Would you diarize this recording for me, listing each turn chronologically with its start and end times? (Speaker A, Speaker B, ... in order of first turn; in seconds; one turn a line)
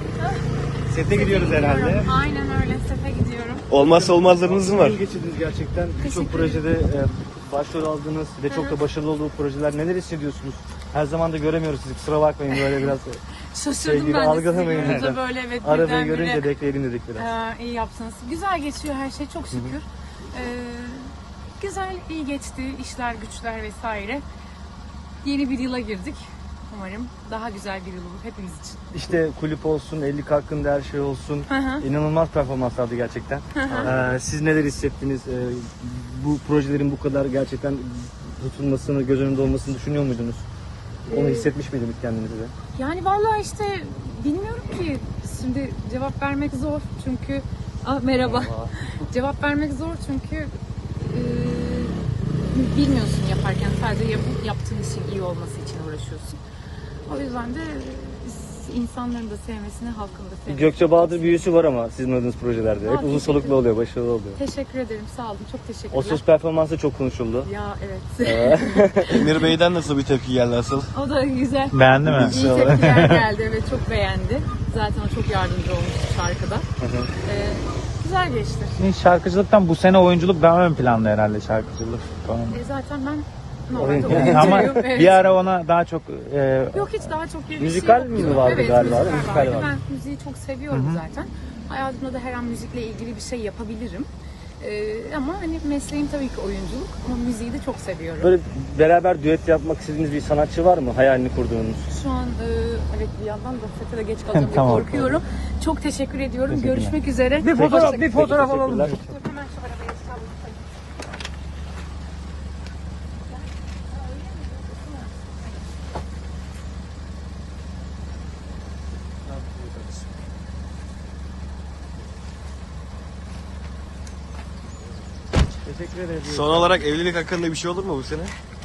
Speaker A: 0.9-2.1
Speaker B: 1.0-3.7
Speaker C: 3.7-5.0
Speaker A: 3.7-13.2
Speaker B: 6.0-6.7
Speaker B: 8.5-8.8
Speaker B: 12.5-12.9
Speaker B: 13.5-16.5
Speaker A: 13.8-17.3
Speaker B: 17.1-24.2
Speaker B: 25.2-28.8
Speaker A: 28.9-40.5
Speaker B: 31.5-31.9
Speaker B: 33.5-33.9
Speaker C: 33.7-34.1
Speaker B: 41.1-41.5
Speaker A: 41.1-42.5
Speaker B: 42.7-52.0
Speaker A: 48.2-48.7
Speaker B: 52.5-56.4
Speaker B: 57.1-61.4
Speaker A: 60.5-64.4
Speaker B: 62.8-63.6
Speaker B: 64.4-66.2
Speaker A: 65.9-67.5
Speaker B: 67.4-69.2
Speaker A: 68.2-69.4
Speaker C: 69.1-70.9
Speaker B: 70.9-76.7
Speaker D: 71.7-73.2
Speaker A: 72.1-72.9
Speaker A: 76.8-77.1
Speaker B: 77.2-78.8
Speaker D: 78.8-82.6
Speaker B: 82.5-85.3
Speaker A: 83.7-84.8
Speaker D: 84.1-87.1
Speaker B: 86.7-98.3
Speaker A: 87.6-89.7
Speaker D: 90.7-91.0
Speaker A: 98.2-101.8
Speaker B: 101.9-108.1
Speaker D: 104.3-105.0
Speaker D: 106.5-109.1
Speaker A: 107.5-109.0
Speaker B: 109.1-110.6
Speaker B: 113.9-115.3
Speaker A: 119.3-119.8
Speaker A: 125.6-126.8
Speaker C: 126.2-128.3